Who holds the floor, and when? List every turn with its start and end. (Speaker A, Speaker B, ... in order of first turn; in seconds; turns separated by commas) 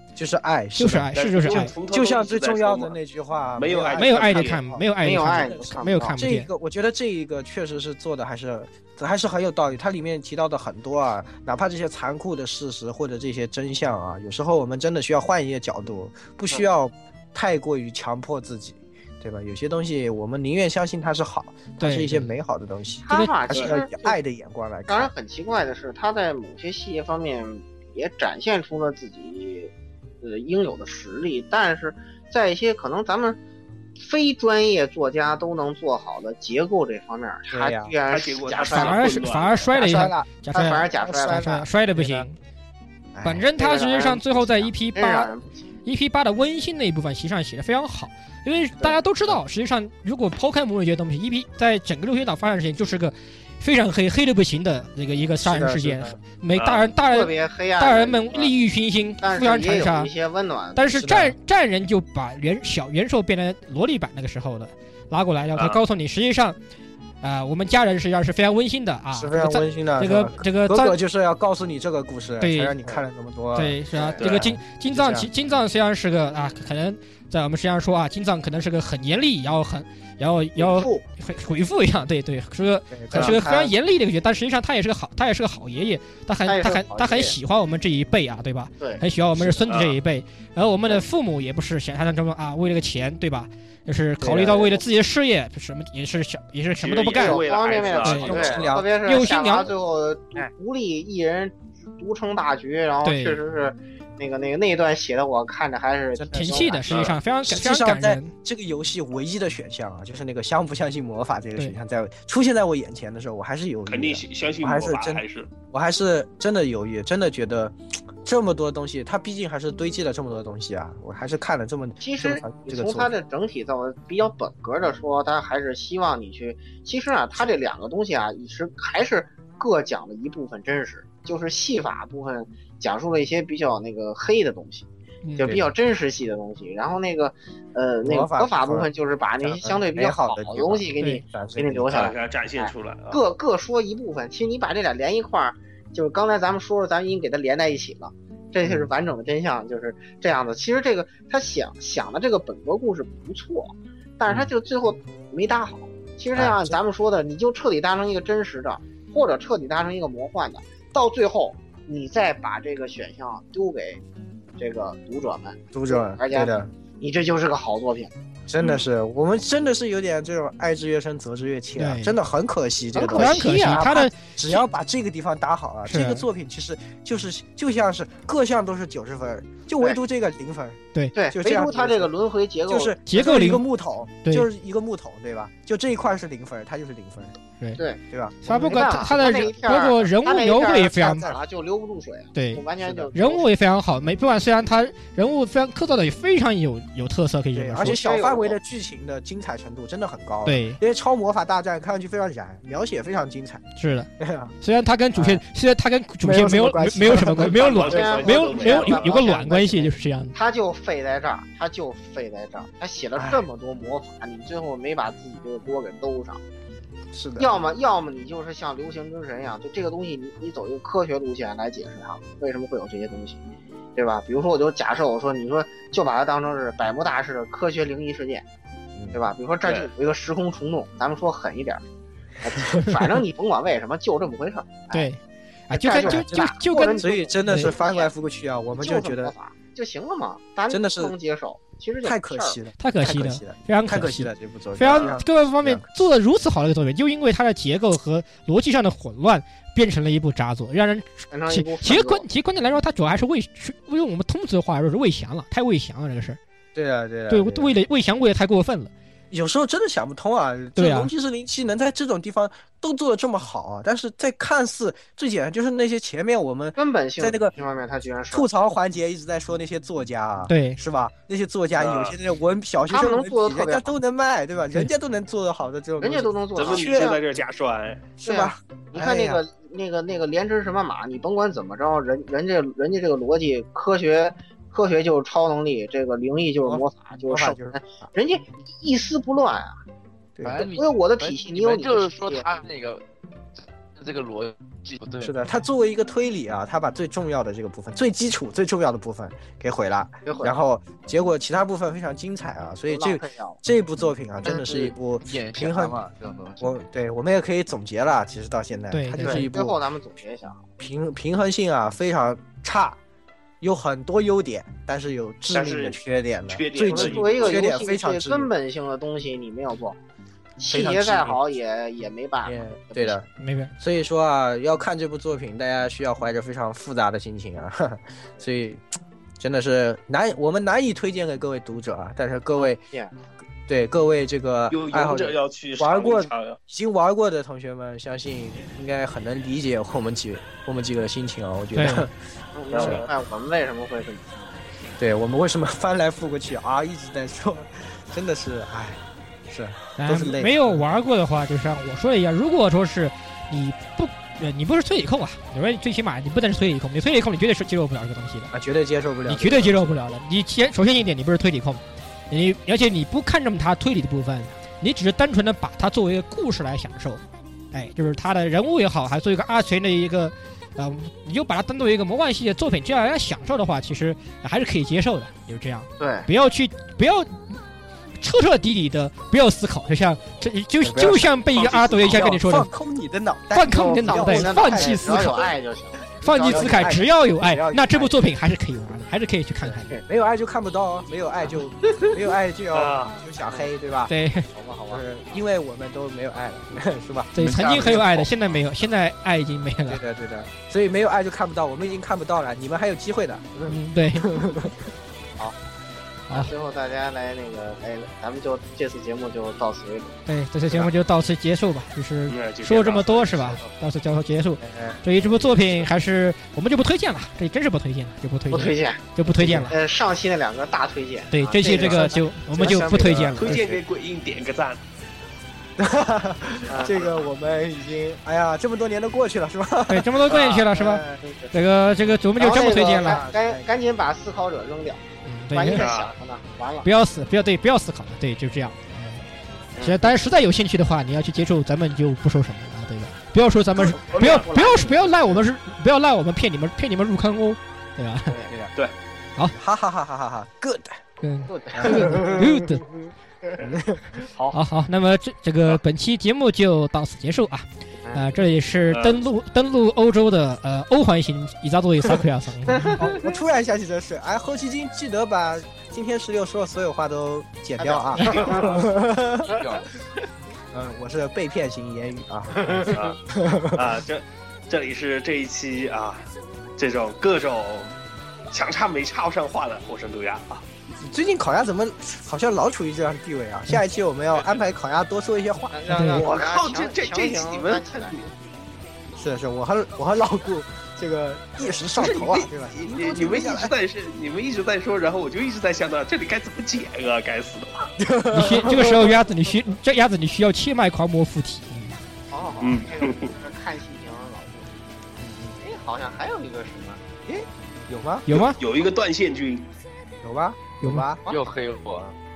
Speaker A: 0.2-25.1, Speaker B: 0.8-1.7, Speaker C: 1.1-3.0, Speaker C: 3.6-4.6, Speaker B: 4.0-6.5, Speaker D: 5.0-6.2, Speaker B: 21.8-22.3, Speaker D: 23.1-24.2, Speaker B: 23.1-23.4, Speaker C: 23.5-23.8, Speaker D: 24.9-29.7, Speaker D: 30.2-33.4, Speaker D: 34.0-39.2, Speaker A: 37.5-37.9, Speaker C: 38.1-40.0, Speaker B: 38.7-42.4, Speaker A: 39.8-41.1, Speaker D: 40.5-41.7, Speaker A: 41.9-42.3, Speaker A: 43.1-43.5, Speaker B: 43.2-45.3, Speaker D: 43.6-45.7, Speaker B: 45.9-60.1, Speaker A: 55.4-56.2, Speaker C: 56.5-56.9, Speaker D: 57.1-58.5, Speaker D: 59.2-60.8, Speaker B: 60.7-66.6, Speaker A: 61.0-61.4, Speaker C: 65.5-65.8, Speaker B: 67.2-71.0, Speaker A: 69.1-75.3, Speaker B: 72.4-72.9, Speaker B: 73.5-97.5, Speaker D: 73.9-74.2, Speaker D: 80.6-80.9, Speaker A: 80.7-81.0, Speaker A: 82.9-83.7, Speaker C: 83.2-83.4, Speaker D: 86.5-87.4, Speaker C: 89.7-90.0, Speaker A: 94.2-94.8, Speaker C: 96.8-98.7, Speaker D: 97.2-107.1, Speaker B: 98.0-99.7, Speaker A: 98.0-98.9, Speaker B: 103.0-103.4, Speaker A: 106.2-106.8, Speaker B: 106.3-108.3, Speaker C: 106.9-107.2, Speaker A: 107.5-123.1, Speaker C: 113.9-115.5, Speaker D: 122.0-134.9, Speaker B: 135.2-135.7, Speaker D: 135.4-164.0, Speaker A: 138.0-138.9, Speaker A: 139.4-142.1, Speaker C: 141.9-143.2, Speaker A: 148.6-148.9, Speaker A: 156.3-156.8, Speaker D: 164.6-168.1, Speaker A: 165.7-166.7, Speaker A: 168.5-180.8, Speaker B: 171.8-172.2, Speaker D: 172.9-174.1, Speaker B: 173.1-174.3, Speaker B: 175.9-176.2, Speaker D: 181.1-182.9, Speaker A: 181.3-182.1, Speaker A: 182.7-187.3, Speaker B: 183.1-183.6, Speaker A: 188.1-190.1, Speaker B: 188.4-191.3, Speaker D: 188.6-193.5, Speaker A: 191.0-191.4, Speaker B: 192.3-198.0, Speaker A: 192.8-193.1, Speaker A: 197.6-203.6, Speaker D: 197.8-198.6, Speaker B: 200.4-200.8, Speaker B: 203.8-204.1, Speaker A: 204.2-204.5, Speaker B: 204.6-210.3, Speaker A: 205.2-205.4, Speaker A: 206.2-207.9, Speaker C: 207.3-209.2, Speaker D: 207.9-216.4, Speaker A: 213.2-213.4, Speaker A: 217.1-217.5, Speaker D: 217.4-223.4, Speaker D: 223.9-228.4, Speaker D: 229.1-231.8, Speaker C: 229.6-229.9, Speaker D: 232.4-235.1, Speaker A: 232.6-233.1, Speaker B: 234.9-237.7, Speaker D: 235.7-238.1, Speaker A: 236.0-239.3, Speaker D: 238.8-242.6, Speaker A: 240.7-241.2, Speaker A: 242.0-245.9, Speaker B: 242.8-256.4, Speaker D: 251.3-252.2, Speaker A: 256.7-257.7, Speaker B: 257.3-258.9, Speaker A: 259.3-267.5, Speaker B: 260.8-261.1, Speaker D: 266.8-268.4, Speaker A: 268.3-277.1, Speaker B: 270.5-270.8, Speaker C: 271.8-272.1, Speaker D: 272.9-273.9, Speaker D: 276.0-277.2, Speaker C: 276.6-278.1, Speaker A: 278.2-279.4, Speaker D: 278.2-289.8, Speaker A: 286.6-288.1, Speaker A: 290.4-290.7, Speaker E: 290.4-293.0, Speaker D: 290.6-292.4, Speaker E: 293.6-295.4, Speaker A: 295.2-306.0, Speaker D: 300.3-300.5, Speaker D: 302.9-303.6, Speaker E: 304.4-306.6, Speaker A: 306.6-309.8, Speaker B: 308.9-309.5, Speaker D: 309.2-310.6, Speaker A: 310.8-313.0, Speaker A: 313.6-318.5, Speaker C: 315.5-317.7, Speaker D: 316.8-320.0, Speaker D: 320.6-323.2, Speaker A: 320.7-321.4, Speaker A: 322.4-323.2, Speaker B: 323.4-323.7, Speaker A: 323.8-328.8, Speaker A: 329.4-332.8, Speaker D: 332.6-333.1, Speaker A: 333.7-342.1, Speaker C: 334.7-336.6, Speaker B: 341.7-342.1, Speaker D: 342.6-344.6, Speaker C: 342.7-343.1, Speaker A: 342.8-343.1, Speaker A: 345.0-350.8, Speaker B: 350.0-358.5, Speaker A: 358.5-360.0, Speaker B: 359.3-367.2, Speaker B: 367.7-377.6, Speaker D: 376.0-376.3, Speaker B: 378.2-382.7, Speaker A: 380.8-385.5, Speaker B: 383.5-385.5, Speaker D: 383.7-387.0, Speaker B: 386.2-390.0, Speaker A: 386.4-388.2, Speaker A: 390.0-394.1, Speaker C: 392.7-393.2, Speaker B: 394.1-394.5, Speaker D: 394.5-395.0, Speaker A: 394.9-398.3, Speaker B: 397.3-400.0, Speaker E: 397.4-398.3, Speaker A: 399.9-404.7, Speaker B: 403.7-404.3, Speaker D: 406.3-410.2, Speaker B: 410.3-419.8, Speaker C: 412.3-413.4, Speaker A: 414.7-415.0, Speaker D: 418.5-423.6, Speaker A: 419.3-419.7, Speaker B: 421.3-423.6, Speaker A: 421.7-423.8, Speaker C: 423.4-424.8, Speaker A: 425.8-430.9, Speaker D: 426.7-427.0, Speaker B: 429.9-433.2, Speaker C: 430.3-430.6, Speaker D: 430.3-431.5, Speaker D: 432.4-436.9, Speaker A: 432.4-433.7, Speaker B: 435.2-435.9, Speaker C: 435.7-436.1, Speaker B: 436.8-439.2, Speaker D: 439.8-440.1, Speaker B: 439.8-448.3, Speaker D: 443.8-445.1, Speaker C: 444.2-444.4, Speaker D: 448.3-448.5, Speaker A: 448.5-448.7, Speaker A: 449.5-451.0, Speaker B: 451.2-452.9, Speaker D: 451.5-452.8, Speaker A: 451.7-452.5, Speaker A: 453.6-454.2, Speaker B: 454.5-463.0, Speaker C: 458.9-459.2, Speaker D: 462.7-463.4, Speaker A: 463.0-469.5, Speaker D: 467.8-468.7, Speaker C: 468.2-468.7, Speaker E: 468.5-468.9, Speaker E: 469.4-469.9, Speaker A: 470.7-473.9, Speaker D: 472.6-473.0, Speaker C: 472.9-473.2, Speaker C: 473.7-477.9, Speaker C: 478.5-480.6, Speaker A: 481.0-486.3, Speaker D: 485.7-488.3, Speaker B: 485.9-486.3, Speaker C: 486.1-488.3, Speaker A: 489.2-493.7, Speaker C: 491.9-497.9, Speaker A: 498.0-499.3, Speaker B: 498.3-502.0, Speaker D: 502.3-504.7, Speaker C: 502.6-503.3, Speaker A: 505.2-505.6, Speaker D: 505.6-507.0, Speaker A: 507.3-508.3, Speaker B: 508.3-508.6, Speaker C: 508.3-509.7, Speaker A: 510.2-511.2, Speaker E: 511.3-512.1